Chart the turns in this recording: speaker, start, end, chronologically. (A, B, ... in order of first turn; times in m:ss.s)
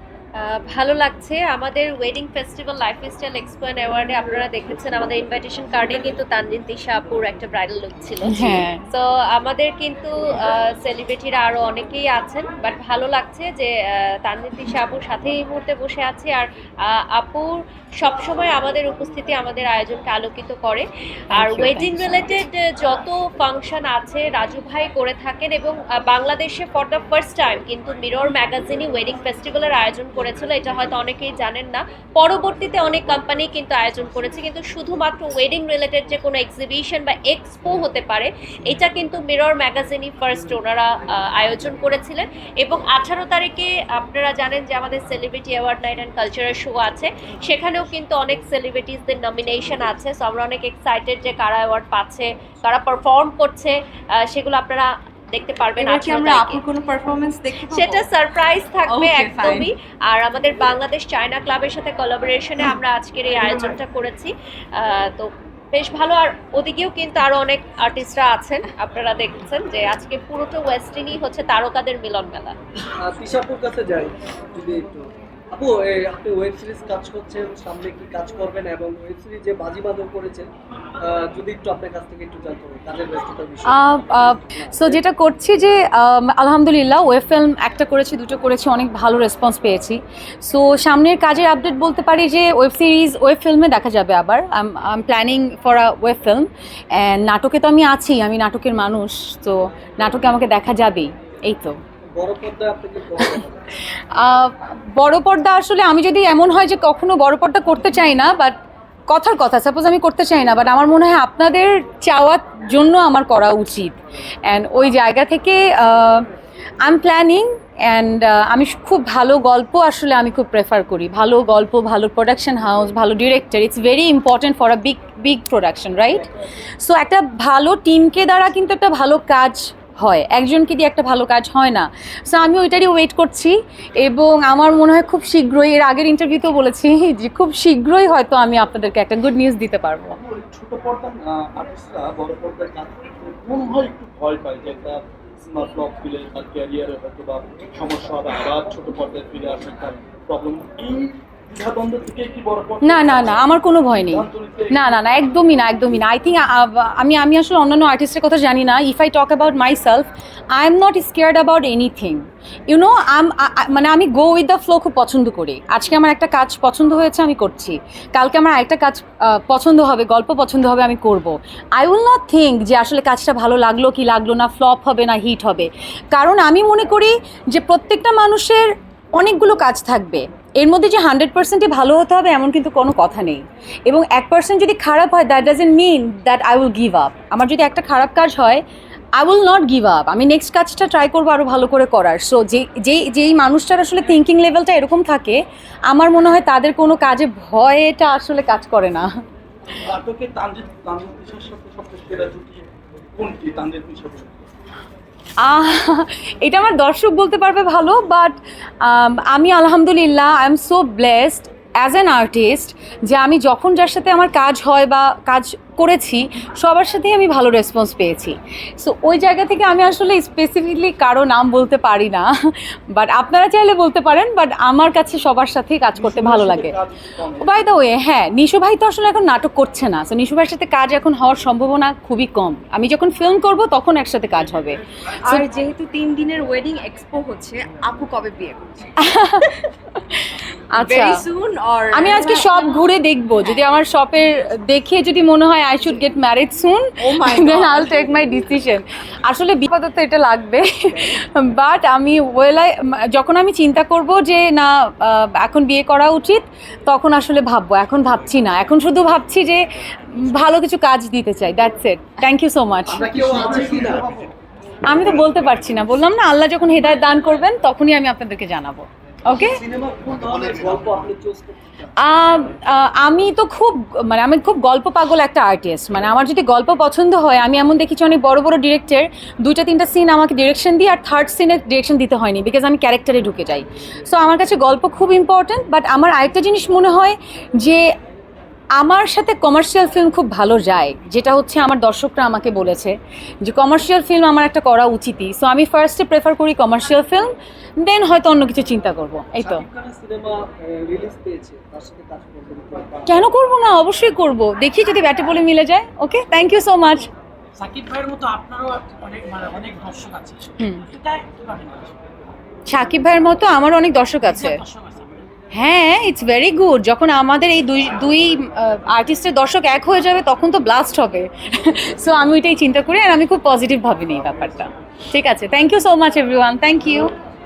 0:00.4-0:56.6 A
0:08.3-0:08.8 B
0:21.4-0:22.3 B
0:55.8-0:58.1 C
0:57.7-1:12.6 A
0:58.8-0:59.7 C
1:12.9-1:20.5 D
1:21.0-1:25.0 D
1:23.6-1:41.8 B
1:42.1-1:43.6 D
1:43.9-1:48.6 B
1:49.1-1:56.3 B
1:56.8-2:06.3 B
2:06.8-2:20.2 B
2:20.2-2:35.0 E
2:32.8-3:08.6 B
3:09.2-3:19.1 B
3:19.8-3:24.5 E
3:25.4-3:46.7 B
3:46.0-3:47.5 E
3:47.4-3:55.4 B
3:55.2-3:58.9 C
3:59.0-4:01.2 B
4:00.8-4:02.9 C
4:01.9-4:23.3 B
4:07.0-4:08.4 C
4:22.9-4:24.1 D
4:23.0-4:24.3 E
4:24.8-4:29.6 B
4:29.4-4:30.8 E
4:30.0-4:31.9 D
4:32.0-4:47.9 B
4:48.8-4:59.6 B
4:59.4-5:03.2 D
5:03.1-5:07.1 B
5:07.6-5:12.0 F
5:10.6-5:10.8 B
5:12.6-5:14.6 B
5:14.2-5:15.2 F
5:15.5-5:27.1 B